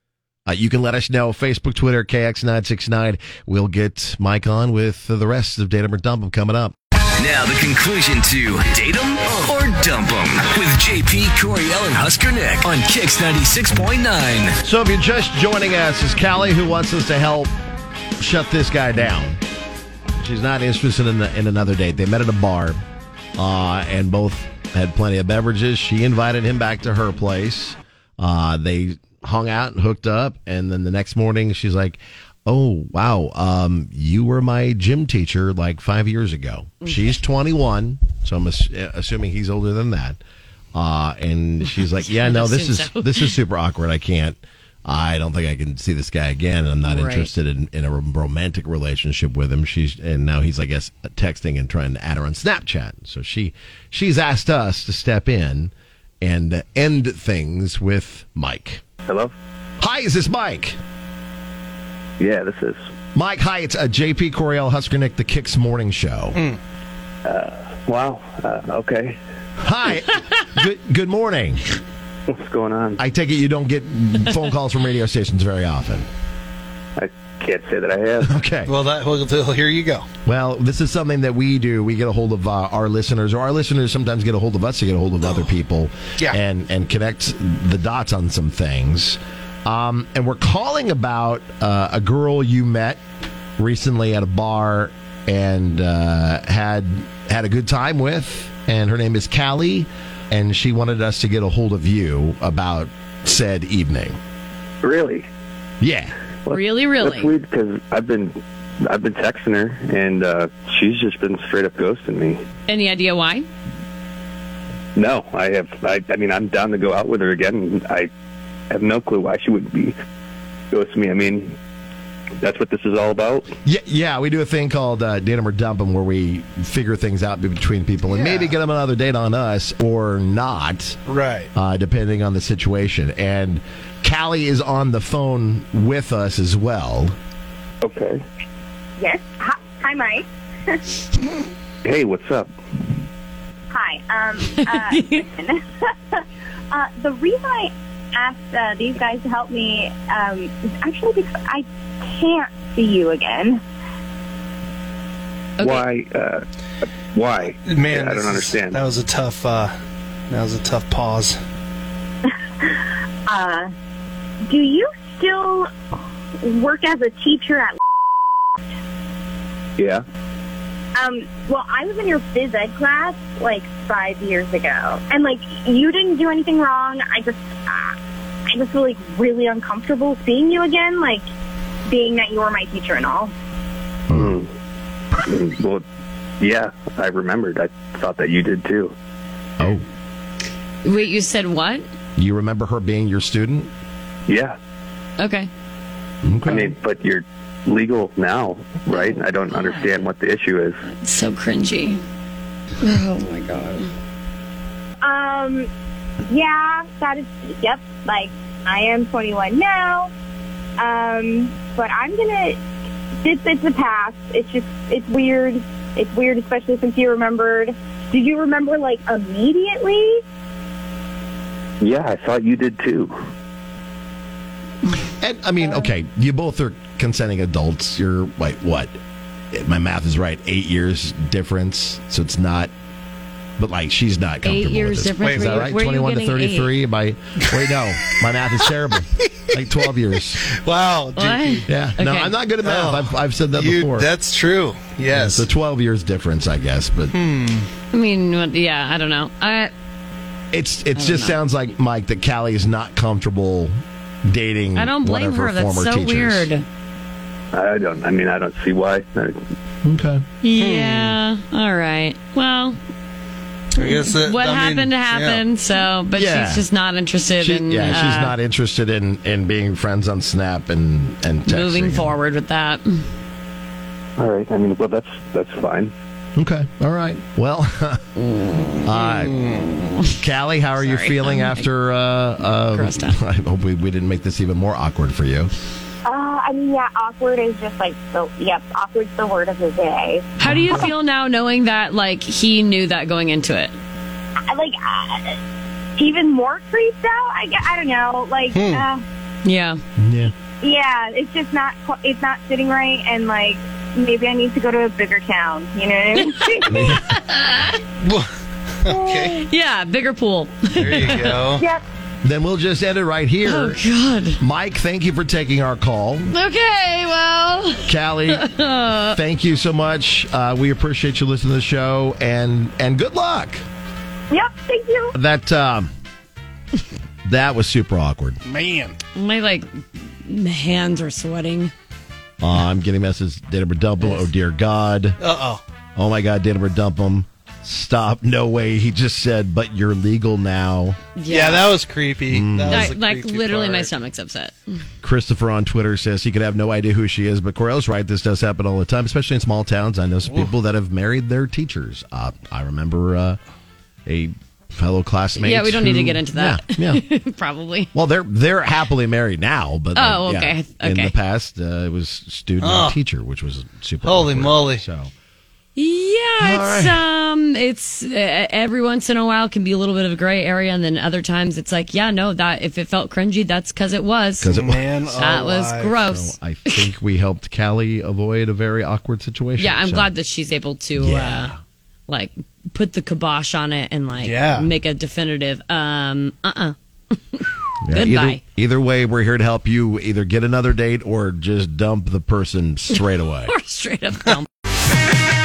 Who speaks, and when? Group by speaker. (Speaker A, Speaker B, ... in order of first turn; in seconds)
Speaker A: 0.5-6.7, 14.6-17.5, 18.2-19.4, 20.2-22.8, 23.4-40.2, 40.8-58.8, 59.8-60.8, 63.1-66.4, 69.6-71.6, 73.0-76.1, 78.2-78.7, 80.2-93.0, 93.6-104.2, 105.8-106.1, 123.6-131.0, 131.5-137.1, 184.1-184.4, 189.6-189.8, 192.2-193.7, 196.2-196.7, 225.2-228.9, 229.5-232.7, 233.6-240.4, 241.7-244.1, 245.1-247.1, 250.5-253.7, 254.2-256.5, 259.8-260.2, 266.1-266.7, 267.4-272.1, 276.4-278.0, 278.9-279.4, 280.2-285.5, 290.5-290.9, 300.0-300.3, 306.7-307.0, 312.2-313.8, 314.4-316.3, 317.9-318.5, 319.0-323.6, 325.1-325.9, 327.2-328.4, 332.4-335.2, 336.0-341.0, 342.3-342.9, 345.0-353.4, 354.1-357.0, 357.9-365.1, 366.4-367.0, 374.4-374.9, 376.0-380.1, 381.0-381.6, 387.9-393.5
Speaker B: 7.2-14.6
Speaker C: 42.0-43.3, 46.8-47.3, 106.5-107.3, 112.7-113.5, 144.4-145.2, 155.6-155.9, 190.8-191.8, 195.2-195.5, 198.9-200.1, 200.9-202.0, 202.8-203.9, 234.4-236.7, 241.1-242.3, 247.9-249.7, 250.9-251.4, 254.8-256.6, 260.4-262.8, 263.8-268.4, 271.5-273.0, 278.2-278.9, 279.4-280.0, 280.8-281.6, 282.7-283.2, 290.4-293.8, 299.4-299.8, 306.2-307.8, 309.3-311.4, 313.4-314.4, 316.3-319.2, 329.1-329.6, 330.2-331.7, 334.0-334.2, 341.1-341.8, 342.7-344.8, 355.4-357.9, 359.9-361.1, 365.8-374.5, 375.2-376.8, 379.6-381.5, 382.1-388.4, 392.9-394.5
Speaker D: 59.1-59.3, 62.2-62.8, 67.2-69.2, 72.3-73.0, 77.0-78.3, 104.8-105.2, 106.5-112.4, 115.0-118.1, 118.7-120.0, 120.7-121.6, 122.4-123.5, 137.8-138.2, 141.8-142.5, 155.6-156.4, 157.1-158.9, 184.1-184.5, 185.2-185.8, 186.4-188.9, 194.3-194.6, 196.4-200.8, 221.8-223.1, 257.5-259.4, 274.2-275.9
Speaker E: 78.7-80.1, 128.1-128.5, 131.1-131.5, 157.4-159.7, 160.3-161.4, 235.2-235.7, 240.4-241.7, 242.6-245.5, 247.1-247.7, 260.6-261.1, 263.8-265.4, 298.5-298.9, 308.0-309.4, 310.8-311.6, 328.4-329.0, 335.2-335.6, 341.3-343.9, 362.6-363.0, 364.0-364.9, 374.5-376.0, 384.2-384.7
Speaker F: 139.0-141.0, 143.7-145.6, 146.1-153.6, 163.3-163.7, 164.5-165.7, 166.4-167.8, 171.0-177.9, 178.5-181.2, 181.9-183.3, 205.0-205.7, 206.3-210.1, 210.8-212.6, 213.2-220.2, 286.0-290.4, 294.5-295.4, 296.0-299.0, 300.6-307.0, 311.6-311.8, 324.3-325.1